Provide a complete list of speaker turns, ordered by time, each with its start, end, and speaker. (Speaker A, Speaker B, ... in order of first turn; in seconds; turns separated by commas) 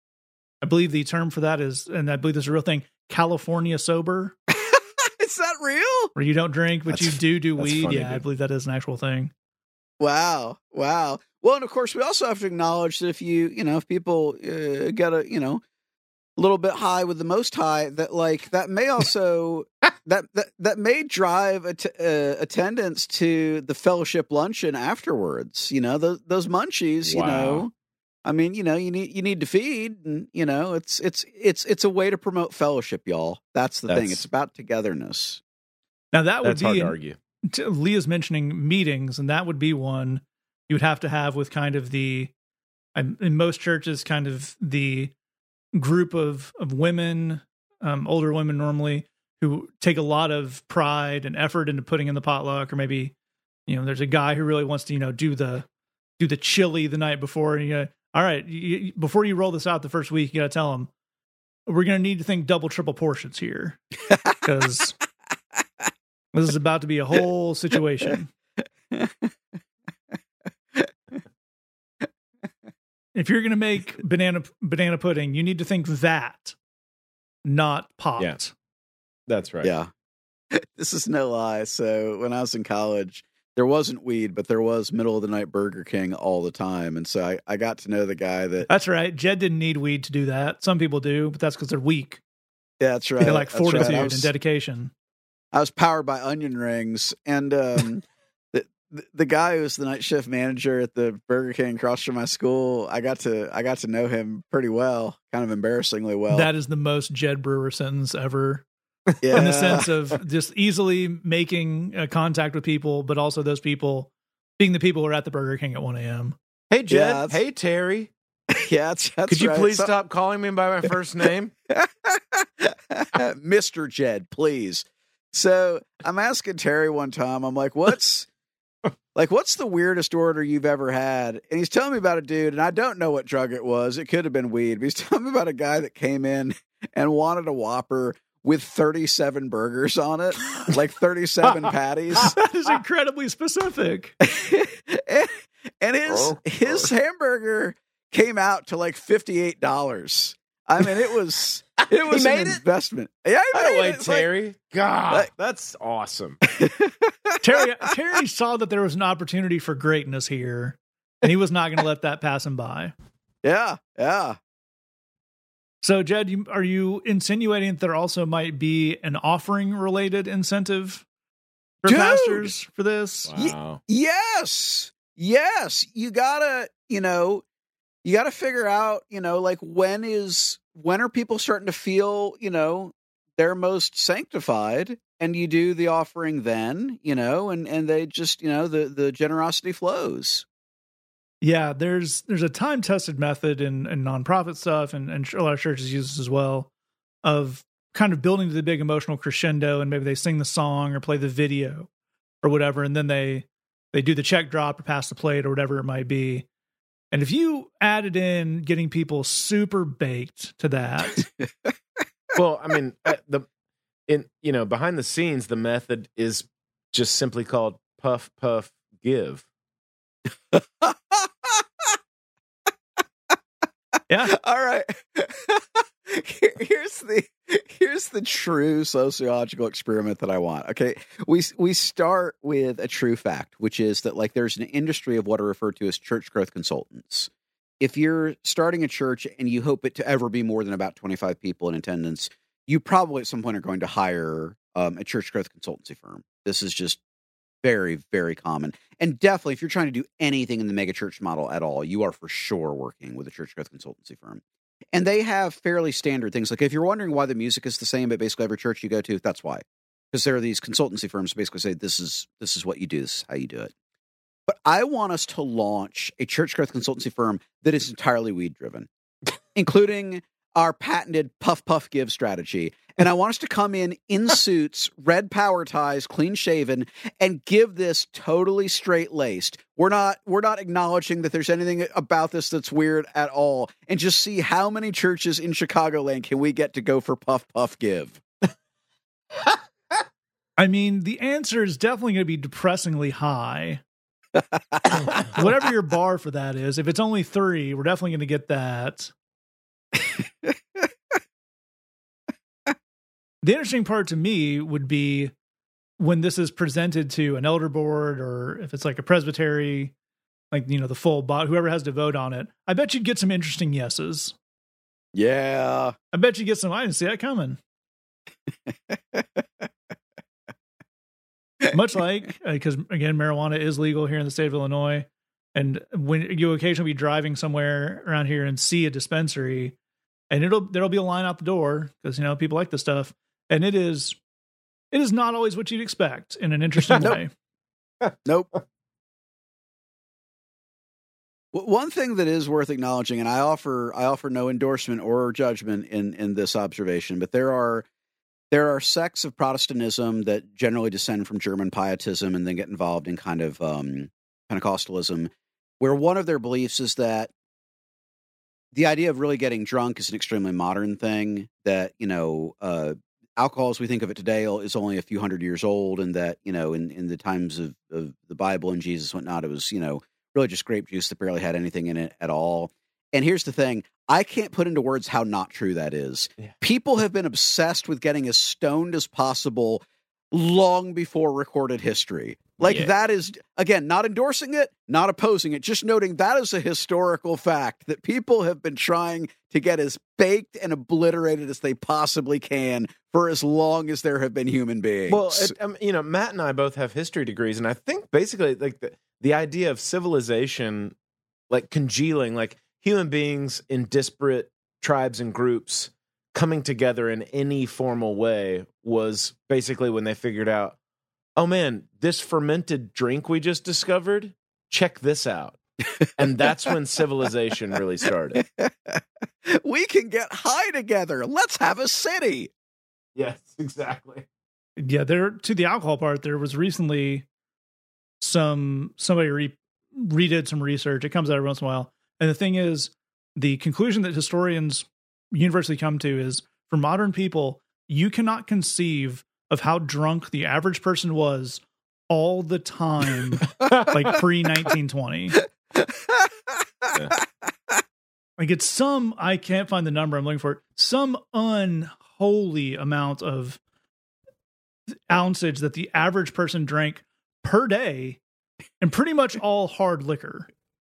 Speaker A: 0.6-4.3, Speaker B: 4.5-6.1, Speaker A: 6.2-9.3, Speaker C: 7.6-8.2, Speaker B: 10.0-15.6, Speaker B: 16.4-27.7, Speaker C: 27.0-27.7, Speaker B: 28.2-35.4, Speaker C: 33.9-34.3, Speaker A: 36.1-42.3, Speaker C: 36.4-37.2, Speaker A: 43.0-45.1, Speaker A: 45.8-53.1, Speaker A: 53.7-55.7, Speaker A: 56.2-60.9, Speaker A: 61.7-65.0, Speaker A: 66.3-68.3, Speaker A: 73.2-76.6, Speaker A: 77.5-78.5, Speaker C: 79.3-79.7, Speaker B: 79.6-79.9, Speaker B: 80.5-88.7, Speaker A: 88.7-92.2, Speaker B: 92.8-94.3, Speaker A: 93.2-94.9, Speaker B: 95.5-106.5, Speaker A: 106.3-108.7, Speaker B: 109.2-109.9, Speaker A: 109.3-116.4, Speaker C: 116.7-118.1, Speaker B: 116.9-117.4, Speaker B: 118.5-119.9, Speaker C: 119.3-121.5, Speaker B: 121.7-128.3, Speaker B: 129.2-142.4, Speaker A: 142.3-144.1, Speaker B: 144.2-154.3, Speaker C: 146.1-146.9, Speaker C: 151.9-152.6, Speaker C: 153.5-156.4, Speaker B: 156.5-157.3, Speaker A: 157.4-162.9, Speaker B: 163.4-164.4, Speaker A: 165.8-171.1, Speaker A: 171.8-173.3, Speaker B: 171.9-172.5, Speaker C: 173.2-173.8, Speaker B: 173.4-177.4, Speaker B: 178.0-190.5, Speaker A: 191.4-196.7, Speaker A: 197.2-201.9, Speaker A: 202.4-206.5, Speaker A: 207.1-211.3, Speaker C: 212.3-213.5, Speaker C: 214.1-219.4, Speaker B: 220.5-221.9, Speaker A: 224.1-224.3, Speaker B: 224.3-237.3, Speaker B: 237.8-247.0, Speaker B: 247.6-254.4, Speaker B: 254.9-263.7, Speaker B: 264.5-268.9, Speaker B: 269.6-288.2, Speaker A: 290.6-293.8, Speaker A: 295.3-299.1, Speaker A: 303.4-305.3, Speaker A: 306.0-309.9, Speaker A: 310.5-314.4, Speaker B: 315.1-315.9, Speaker A: 316.1-317.6, Speaker B: 318.9-319.2, Speaker A: 321.7-329.8, Speaker A: 330.3-334.2, Speaker A: 334.9-337.3, Speaker C: 336.9-337.2, Speaker B: 338.2-338.6, Speaker B: 341.5-347.9, Speaker B: 348.5-357.3, Speaker B: 358.7-395.6, Speaker C: 382.6-382.9, Speaker C: 395.1-400.9, Speaker C: 401.5-410.8, Speaker C: 411.4-415.6, Speaker C: 416.2-418.4, Speaker B: 418.4-422.5, Speaker C: 423.1-424.2, Speaker A: 424.8-427.3, Speaker A: 428.2-445.4, Speaker B: 445.8-446.3, Speaker A: 448.4-453.6, Speaker A: 455.1-458.2, Speaker A: 458.8-460.5